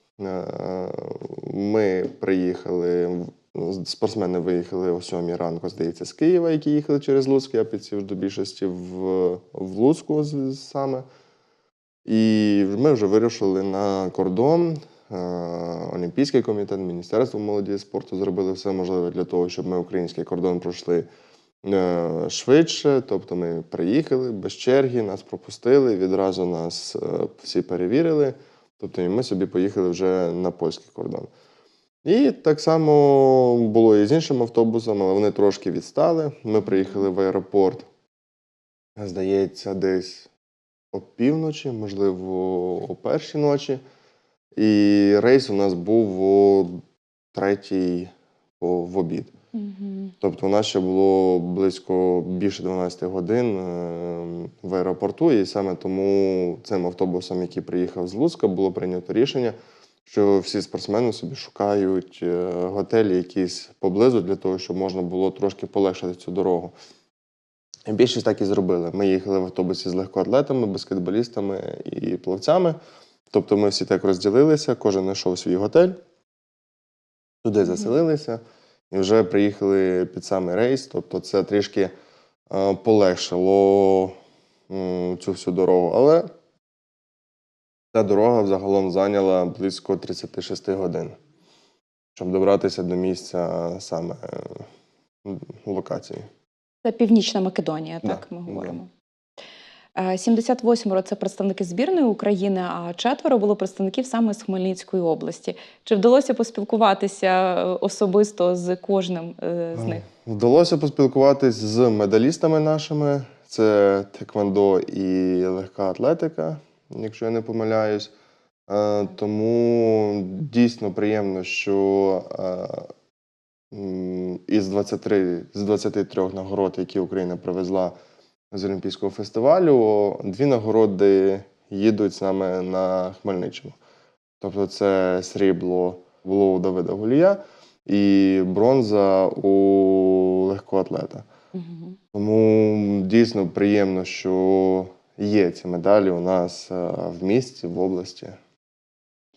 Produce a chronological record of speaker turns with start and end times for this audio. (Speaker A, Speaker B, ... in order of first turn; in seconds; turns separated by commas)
Speaker A: 0.2-11.1, Speaker A: 12.1-21.1, Speaker A: 21.6-31.3, Speaker A: 32.0-37.9, Speaker A: 39.0-40.3, Speaker A: 40.9-43.8, Speaker A: 44.6-46.8, Speaker A: 47.3-49.3, Speaker B: 49.5-50.1, Speaker A: 50.2-66.8, Speaker A: 67.9-72.8, Speaker A: 73.3-76.0, Speaker A: 77.4-81.9, Speaker A: 82.5-84.1, Speaker A: 84.7-86.3, Speaker A: 87.9-91.2, Speaker A: 92.2-94.7, Speaker A: 95.2-96.3, Speaker B: 96.8-98.9, Speaker A: 98.0-98.8, Speaker B: 100.0-110.0, Speaker A: 109.8-118.1, Speaker A: 118.7-122.9, Speaker A: 123.7-128.0, Speaker A: 128.5-133.8, Speaker A: 134.4-141.3, Speaker B: 141.6-142.0, Speaker A: 142.1-148.4